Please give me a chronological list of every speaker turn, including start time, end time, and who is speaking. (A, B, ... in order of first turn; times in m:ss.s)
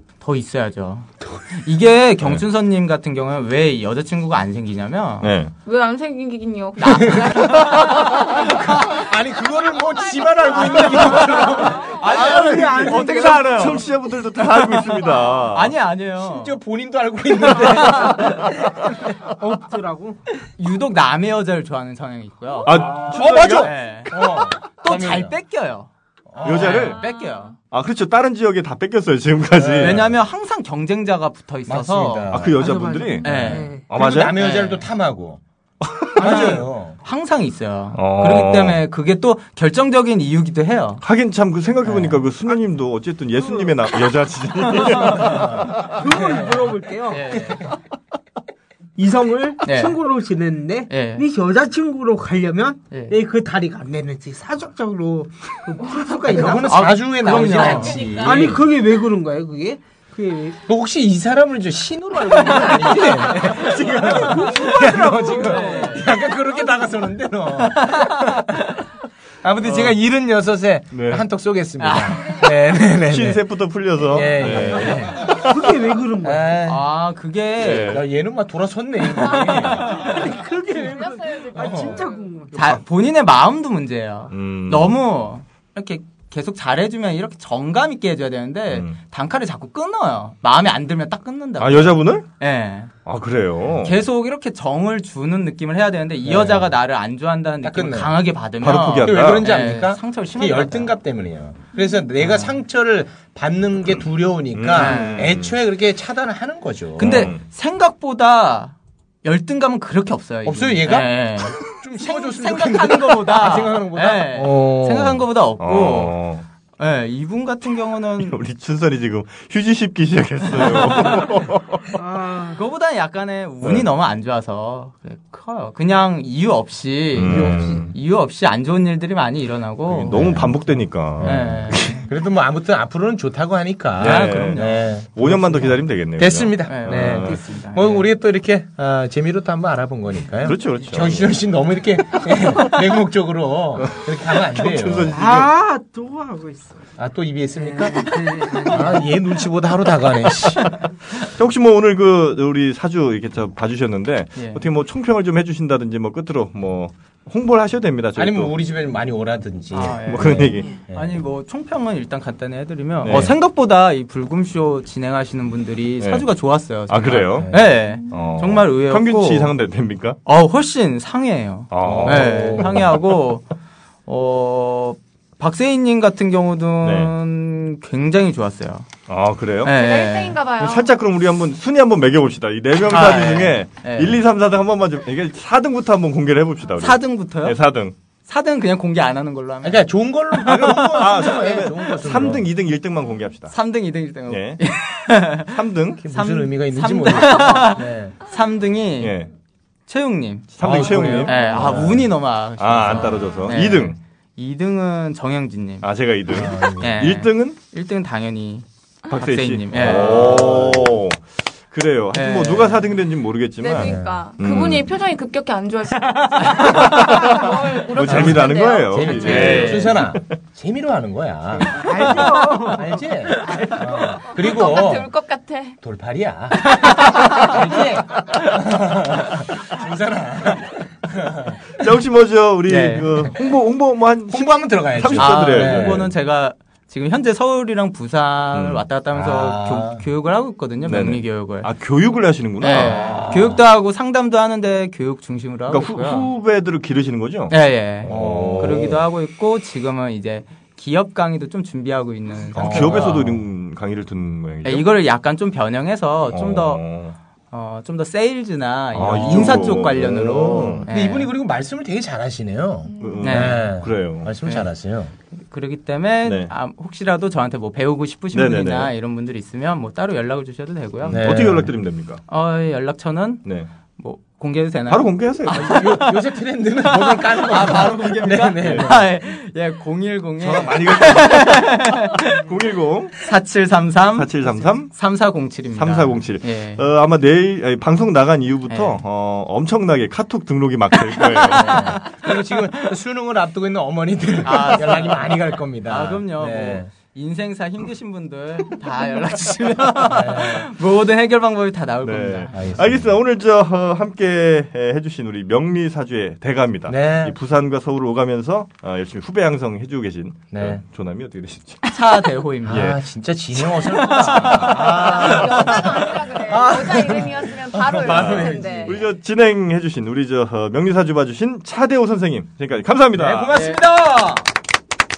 0:00.2-0:05.3 A
0:05.2-0:05.5 B
0:05.6-0:08.8 C
0:06.8-0:12.0 D
0:07.1-0:09.0 A
0:10.5-0:16.6 A
0:11.8-0:12.3 C
0:12.0-0:13.6 E
0:12.0-0:15.7 B
0:16.2-0:19.1 D
0:17.4-0:18.5 A
0:19.2-0:20.2 E
0:20.4-0:25.9 A
0:22.6-0:25.4 D
0:22.7-0:23.7 B
0:26.3-0:26.9 D
0:26.4-0:27.6 A
0:26.4-0:27.0 B
0:27.0-0:27.4 C
0:27.7-0:30.0 B
0:29.5-0:30.2 D
0:29.8-0:32.3 A
0:31.7-0:32.6 D
0:32.3-0:34.4 B
0:32.6-0:33.8 E
0:33.2-0:35.4 D
0:33.2-0:34.8 A
0:35.8-0:36.4 B
0:36.2-0:37.0 D
0:36.2-0:36.7 E
0:37.0-0:41.0 A
0:38.0-0:38.8 B
0:41.0-0:46.0 B
0:41.9-0:42.2 A
0:44.7-0:45.5 A
0:45.1-0:47.7 E
0:45.2-0:46.6 D
0:47.1-0:47.7 A
0:49.0-0:56.7 E
0:49.6-0:50.0 A
0:50.9-0:51.2 A
0:56.3-0:58.6 D
0:56.6-0:58.2 A
0:58.2-1:00.6 E
1:00.7-1:08.8 D
1:02.9-1:06.1 A
1:03.6-1:06.1 E
1:07.6-1:08.8 A
1:09.4-1:13.4 D
1:09.6-1:10.0 B
1:10.9-1:11.2 B
1:11.8-1:12.4 A
1:13.1-1:15.6 B
1:14.0-1:15.3 D
1:15.3-1:16.6 E
1:16.2-1:16.8 D
1:16.6-1:18.0 A
1:17.6-1:18.0 B
1:17.7-1:20.0 D
1:19.6-1:22.8 E
1:20.8-1:22.0 C
1:21.5-1:22.0 D
1:22.5-1:32.9 A
1:24.3-1:25.0 B
1:31.6-1:32.3 B
1:33.1-1:34.0 B
1:33.8-1:41.0 A
1:36.2-1:36.7 D
1:37.6-1:38.2 D
1:38.6-1:39.5 B
1:39.0-1:47.3 D
1:42.2-1:42.5 A
1:44.5-1:45.6 B
1:44.7-1:45.3 A
1:47.0-1:56.2 A
1:47.0-1:47.4 B
1:50.4-1:55.2 D
1:55.6-1:56.4 B
1:56.8-1:58.4 A
1:58.2-2:02.0 B
2:00.7-2:01.4 A
2:02.0-2:02.6 E
2:02.5-2:10.3 A
2:07.2-2:07.9 B
2:07.2-2:07.8 D
2:07.3-2:07.8 E
2:09.9-2:12.0 B
2:10.1-2:25.2 D
2:11.2-2:12.0 A
2:14.0-2:15.3 A
2:14.0-2:17.4 B
2:16.6-2:18.1 A
2:20.4-2:21.4 B
2:20.7-2:21.2 A
2:23.8-2:25.5 B
2:25.1-2:26.8 E
2:27.0-2:30.7 D
2:27.6-2:29.1 E
2:31.2-2:38.5 B
2:34.4-2:34.7 A
2:38.2-2:41.2 D
2:39.7-2:49.5 A
2:40.1-2:40.7 B
2:43.0-2:43.3 B
2:46.9-2:50.2 B
2:47.4-2:47.7 D
2:50.2-2:53.5 A
2:51.7-2:52.9 B
2:51.8-2:52.9 D
2:54.1-2:58.9 A
2:56.8-2:57.1 B
2:59.1-2:59.8 B
2:59.6-3:00.4 A
2:59.7-3:01.0 C
3:00.6-3:08.0 B
3:02.9-3:04.2 A
3:06.8-3:07.6 A
3:08.3-3:11.7 A
3:09.6-3:12.5 D
3:10.7-3:13.6 B
3:13.5-3:19.2 A
3:14.3-3:14.6 B
3:15.4-3:16.0 B
3:16.0-3:18.2 D
3:19.0-3:19.3 B
3:19.9-3:25.9 A
3:20.6-3:21.7 B
3:20.6-3:22.1 D
3:22.6-3:24.0 B
3:22.8-3:23.1 D
3:25.8-3:27.6 B
3:26.3-3:27.0 D
3:26.8-3:30.7 A
3:29.1-3:34.9 B
3:29.8-3:30.9 D
3:32.1-3:32.9 A
3:33.6-3:39.5 C
3:33.7-3:34.3 D
3:36.4-3:37.2 A
3:36.8-3:40.2 B
3:38.0-3:45.1 D
3:39.1-3:40.1 A
3:41.6-3:44.3 E
3:44.3-3:45.8 C
3:45.8-3:51.6 D
3:46.6-3:47.5 A
3:51.7-3:56.1 B
3:52.7-3:53.1 A
3:54.3-3:56.1 D
3:55.2-4:01.7 A
3:58.5-3:58.8 B
3:59.1-4:00.0 D
4:00.9-4:03.2 B
4:02.6-4:06.3 A
4:02.7-4:03.6 D
4:05.7-4:09.0 B
4:07.5-4:13.3 A
4:08.1-4:09.0 D
4:12.5-4:13.4 D
4:12.6-4:14.9 B
4:14.6-4:16.8 A
4:16.3-4:17.2 B
4:17.5-4:21.3 A
4:18.9-4:20.9 B
4:20.6-4:25.1 D
4:22.9-4:23.4 C
4:23.0-4:24.3 B
4:23.2-4:23.7 A
4:25.5-4:31.2 A
4:26.2-4:26.5 B
4:28.3-4:28.9 B
4:31.0-4:32.2 B
4:31.1-4:31.7 D
4:32.3-4:33.4 A
4:34.0-4:42.4 A
4:34.9-4:35.8 B
4:35.5-4:39.1 D
4:38.6-4:38.9 B
4:40.4-4:43.2 B
4:43.2-4:46.8 A
4:44.2-4:52.0 B
4:48.7-4:49.0 A
4:51.1-4:52.3 A
4:51.5-4:56.9 D
4:54.4-4:55.3 A
4:55.9-5:02.7 A
5:00.0-5:00.7 D
5:02.0-5:11.8 B
5:02.5-5:03.1 D
5:06.9-5:07.4 D
5:10.5-5:10.8 D
5:11.9-5:13.0 A
5:12.6-5:19.1 D
5:13.6-5:15.2 A
5:14.4-5:15.9 B
5:14.9-5:19.0 C
5:18.0-5:23.5 B
5:23.1-5:24.5 D
5:23.5-5:23.8 A